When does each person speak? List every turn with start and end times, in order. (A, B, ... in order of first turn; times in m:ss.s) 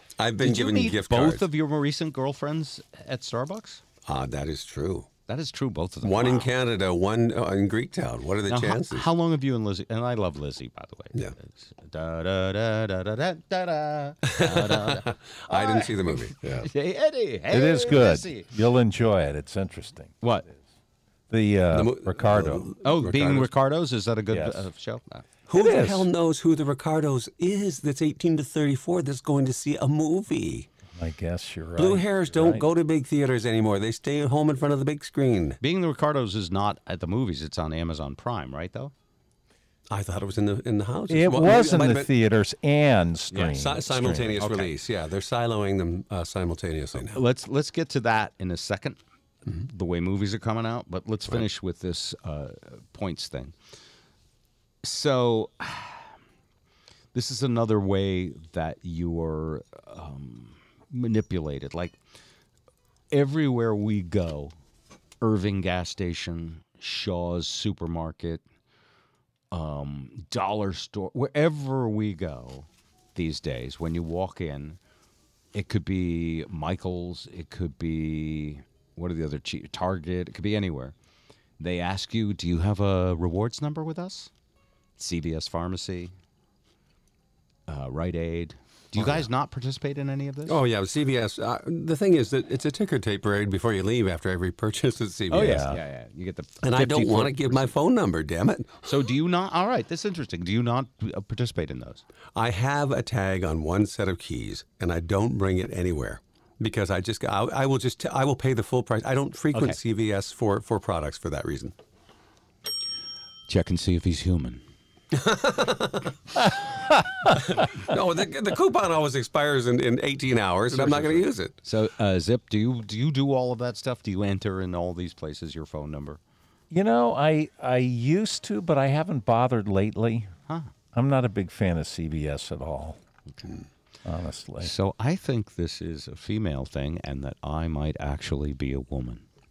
0:00.2-0:01.4 A
0:00.4-0:03.8 B
0:04.1-0:05.1 A
0:05.3-0:06.5 B
0:06.0-0:09.1 A
0:08.5-0:15.9 B
0:14.3-0:16.7 A
0:16.6-0:18.5 B
0:17.5-0:20.6 C
0:21.3-0:22.7 C
0:21.7-0:23.5 A
0:22.8-0:25.2 B
0:24.3-0:24.7 C
0:25.5-0:30.7 A
0:25.5-0:26.1 C
0:30.9-0:32.7 C
0:31.8-0:35.6 A
0:35.6-0:38.9 B
0:39.9-0:42.1 A
0:41.1-0:44.5 C
0:43.3-0:43.6 B
0:43.5-0:47.2 A
0:44.4-0:44.7 B
0:47.0-0:49.0 B
0:49.6-0:53.6 B
0:54.8-0:56.1 B
0:57.1-1:02.0 B
1:03.1-1:04.5 B
1:05.2-1:08.4 B
1:09.5-1:14.8 B
1:15.5-1:20.9 B
1:21.6-1:24.3 B
1:25.0-1:26.1 B
1:27.7-1:30.6 B
1:29.0-1:29.3 A
1:30.5-1:35.7 A
1:35.3-1:37.8 B
1:35.4-1:35.8 C
1:36.6-1:38.8 A
1:38.8-1:42.0 B
1:42.4-1:51.7 A
1:49.5-1:49.8 B
1:53.5-1:54.6 B
1:55.1-1:56.6 A
1:57.3-2:01.6 A
2:00.7-2:06.2 B
2:06.7-2:10.4 C
2:10.9-2:13.0 C
2:14.0-2:14.7 C
2:14.6-2:19.3 B